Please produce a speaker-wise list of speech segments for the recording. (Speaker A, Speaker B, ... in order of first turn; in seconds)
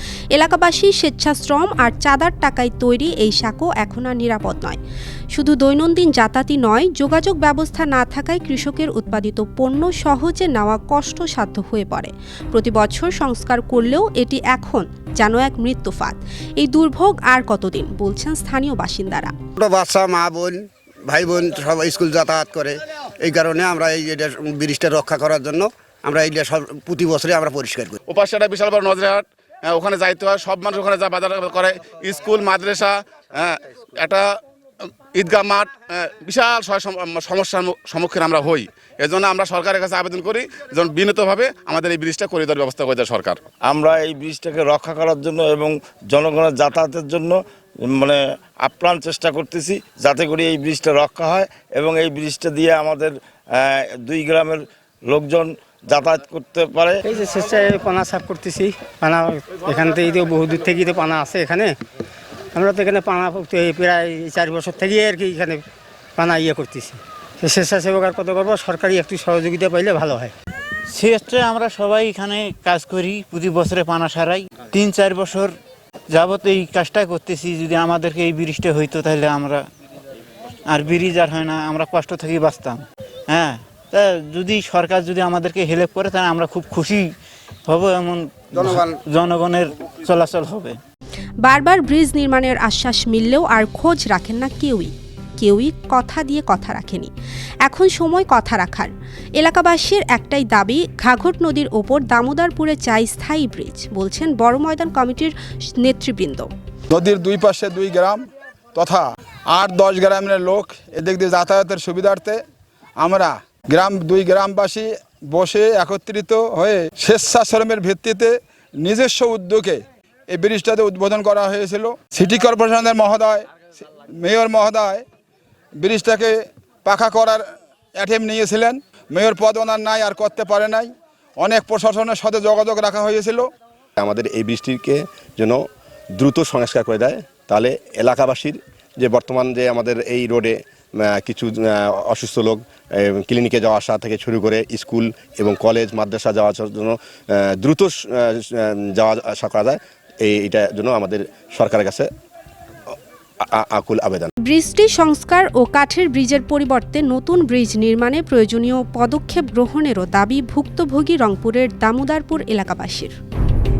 Speaker A: 0.3-4.8, 5.3-19.3, 91.4-97.1, 97.6-106.5, 154.4-163.2
Speaker B: 19.6-28.0, 88.6-89.0
Speaker C: 28.1-34.3, 35.1-43.5
Speaker D: 43.7-47.4, 47.9-57.0
Speaker E: 57.0-61.7, 62.5-65.6, 66.2-70.3
Speaker F: 70.9-75.5, 76.1-79.7, 80.7-87.1, 87.7-90.8
Speaker G: 106.9-108.2, 108.7-112.4, 113.0-125.0, 125.8-133.5
Speaker H: 134.0-135.6, 136.2-152.1, 153.5-154.3